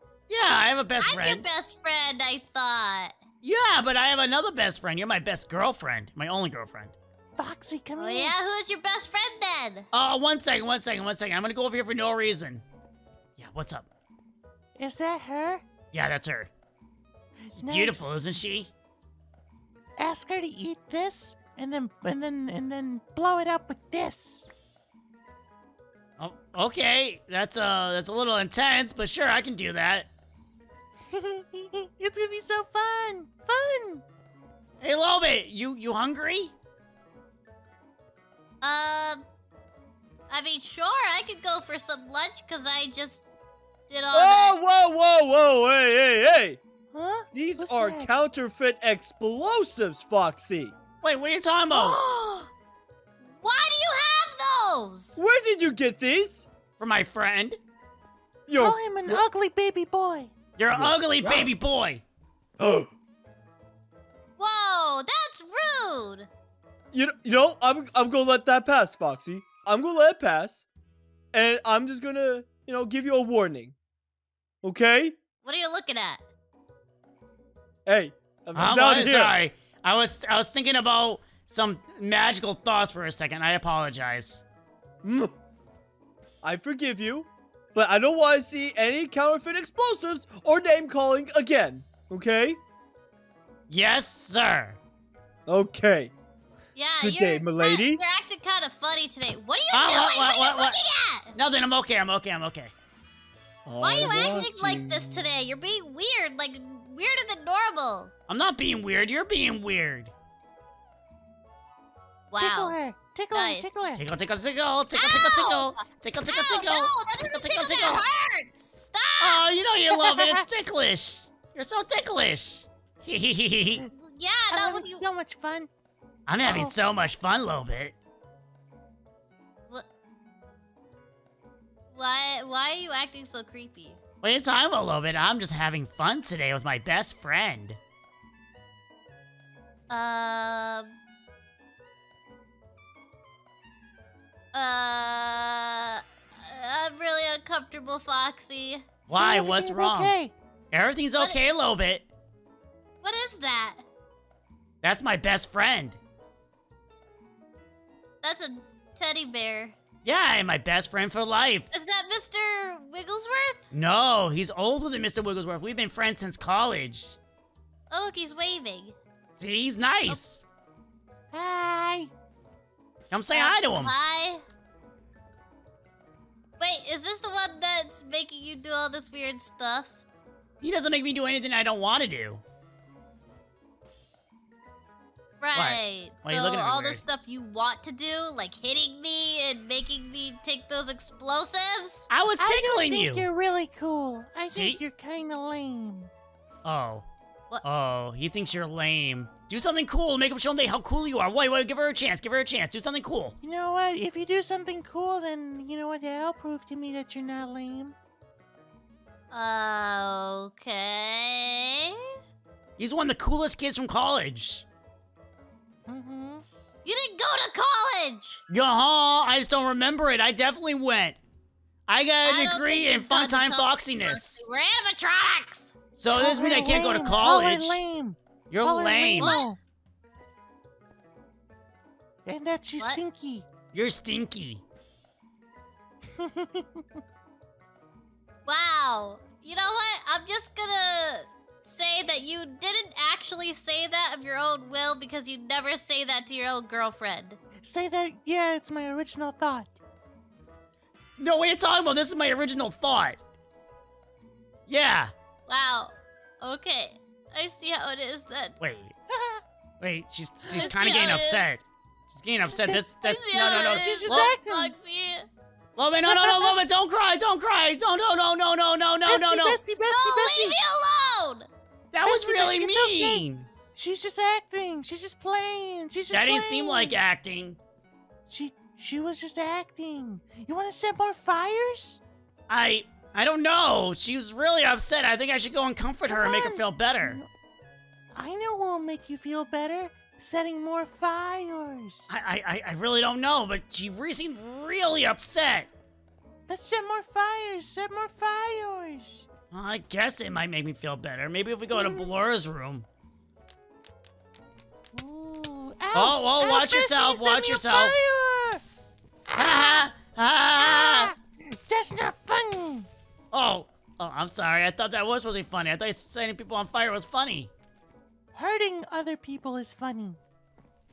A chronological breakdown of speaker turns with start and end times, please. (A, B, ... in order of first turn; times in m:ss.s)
0:00.3-0:01.4 A
0:01.0-0:03.2 B
0:03.4-0:07.0 A
0:07.4-0:08.3 C
0:08.0-0:09.9 B
0:09.9-0:12.6 A
0:13.4-0:13.9 A
0:14.8-0:15.6 C
0:15.9-0:16.5 A
0:17.5-0:18.1 C
0:17.6-0:18.7 A
0:20.0-0:24.5 C
0:26.2-0:30.1 A
0:31.1-0:34.0 C
0:34.8-0:36.6 A
0:38.6-0:39.2 B
0:40.3-0:43.2 B
0:43.9-0:44.6 B
0:44.1-0:46.6 D
0:46.9-0:48.1 C
0:47.3-0:50.8 D
0:51.0-0:52.0 A
0:51.7-0:52.5 B
0:53.4-0:55.2 B
0:55.2-0:56.5 D
0:56.8-0:57.6 A
0:58.5-0:59.2 D
0:58.6-1:00.3 C
1:00.6-1:02.0 A
1:00.7-1:01.5 D
1:02.6-1:02.9 D
1:04.4-1:06.3 B
1:06.9-1:10.7 D
1:11.3-1:13.8 D
1:14.6-1:15.2 D
1:15.4-1:16.2 B
1:17.9-1:19.4 D
1:18.6-1:24.4 A
1:25.0-1:25.3 D
1:26.4-1:32.6 D
1:33.7-1:34.8 A
1:35.5-1:36.1 D
1:36.8-1:41.4 B
1:37.0-1:38.0 D
1:39.7-1:40.8 A
1:41.4-1:42.7 A
1:43.7-1:45.3 D
1:43.8-1:48.1 B
1:48.3-1:50.1 A
1:52.3-1:52.8 B
1:52.4-1:54.0 C
1:53.3-1:53.8 B
1:54.0-1:58.0 A
1:54.9-1:59.4 B
1:59.2-2:03.8 A
1:59.9-2:00.4 C
2:04.0-2:05.0 B
2:04.5-2:05.7 C
2:06.3-2:08.0 A
2:06.4-2:06.7 C
2:11.9-2:14.0 B
2:14.2-2:17.8 A
2:19.9-2:20.9 B
2:24.5-2:28.9 B
2:29.1-2:30.1 A
2:29.1-2:30.3 C
2:30.7-2:32.1 A
2:33.0-2:33.8 B
2:34.8-2:36.0 A
2:38.2-2:39.8 B
2:40.0-2:41.7 A
2:41.7-2:43.6 B
2:43.7-2:47.2 A
2:47.9-2:49.0 B
2:49.4-2:50.4 A
2:51.3-2:52.1 C
2:53.1-2:53.9 A
2:53.3-2:54.4 B
2:56.6-3:00.0 B
3:00.6-3:02.4 A
3:05.4-3:12.1 B
3:05.6-3:07.0 A
3:12.1-3:13.3 A
3:12.4-3:16.1 C
3:14.5-3:14.8 A
3:16.6-3:17.1 A
3:17.6-3:23.4 A
3:23.4-3:28.0 C
3:29.3-3:32.1 B
3:32.8-3:34.6 A
3:35.9-3:36.4 C
3:36.8-3:38.4 B
3:38.5-3:41.2 A
3:41.9-3:44.4 A
3:42.2-3:45.8 B
3:46.0-3:47.8 A
3:46.1-3:49.6 C
3:48.5-3:49.4 A
3:49.2-3:49.5 B
3:52.3-3:53.4 C
3:53.7-3:54.6 A
3:56.2-3:56.8 C
3:58.5-4:07.4 B
4:07.6-4:09.7 C
4:11.2-4:13.2 A
4:14.7-4:15.1 A
4:15.5-4:18.6 B
4:18.6-4:19.0 A
4:19.1-4:19.4 C
4:19.8-4:24.4 A
4:20.5-4:21.6 B
4:22.5-4:25.3 B
4:23.3-4:24.7 C
4:25.8-4:29.6 A
4:26.1-4:26.6 C
4:29.1-4:30.6 C
4:29.9-4:31.5 B
4:31.9-4:33.5 A
4:32.0-4:37.0 C
4:36.1-4:37.6 A
4:38.3-4:42.0 C
4:42.5-4:47.2 A
4:46.1-4:47.3 C
4:48.1-4:52.1 C
4:52.1-4:55.7 A
4:56.5-4:59.3 C
4:59.5-5:02.9 A
5:01.7-5:02.1 C
5:04.9-5:08.6 C
5:05.9-5:08.0 A
5:09.3-5:09.9 C
5:09.4-5:11.1 A
5:10.6-5:12.9 C
5:13.3-5:17.5 A
5:18.4-5:20.2 C